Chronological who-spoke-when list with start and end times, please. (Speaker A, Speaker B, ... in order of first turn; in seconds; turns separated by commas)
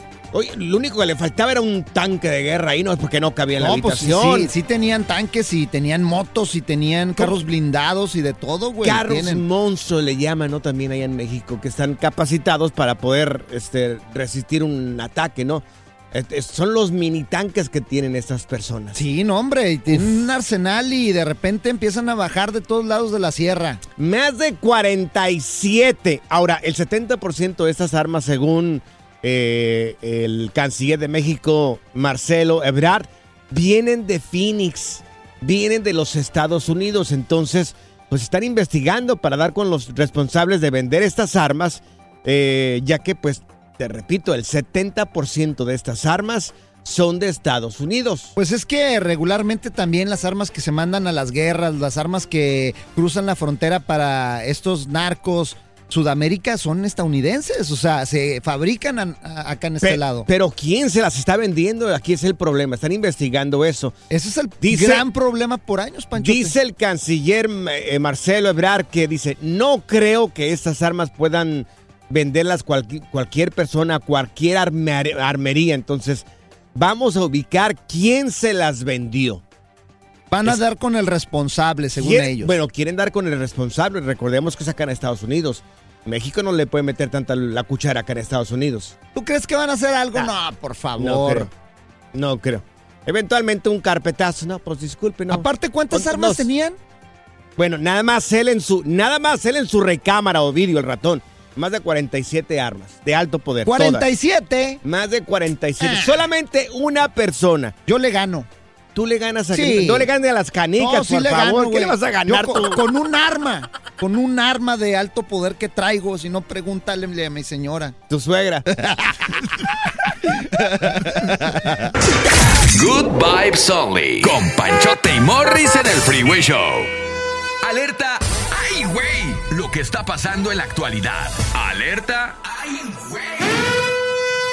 Speaker A: 0.3-4.5, Speaker B: 3.6-9.4, Speaker A: 8.8-19.0, Speaker B: 18.9-23.8, Speaker A: 24.0-48.3, Speaker B: 48.4-60.3, Speaker A: 59.8-63.9, Speaker B: 64.1-66.6, Speaker A: 64.6-65.0, Speaker A: 66.2-79.4, Speaker B: 80.3-82.6, Speaker A: 82.0-89.0, Speaker B: 89.1-91.5, Speaker A: 91.0-91.5, Speaker A: 92.1-96.5, Speaker B: 95.3-96.8, Speaker A: 97.6-104.1, Speaker B: 103.7-104.8, Speaker A: 104.8-107.7, Speaker B: 105.8-106.2, Speaker B: 107.9-108.5, Speaker A: 109.0-112.8, Speaker B: 109.5-110.1, Speaker B: 110.8-117.9, Speaker A: 118.1-118.6, Speaker B: 118.7-119.3, Speaker B: 120.5-121.9, Speaker C: 122.5-126.9, Speaker C: 127.6-133.7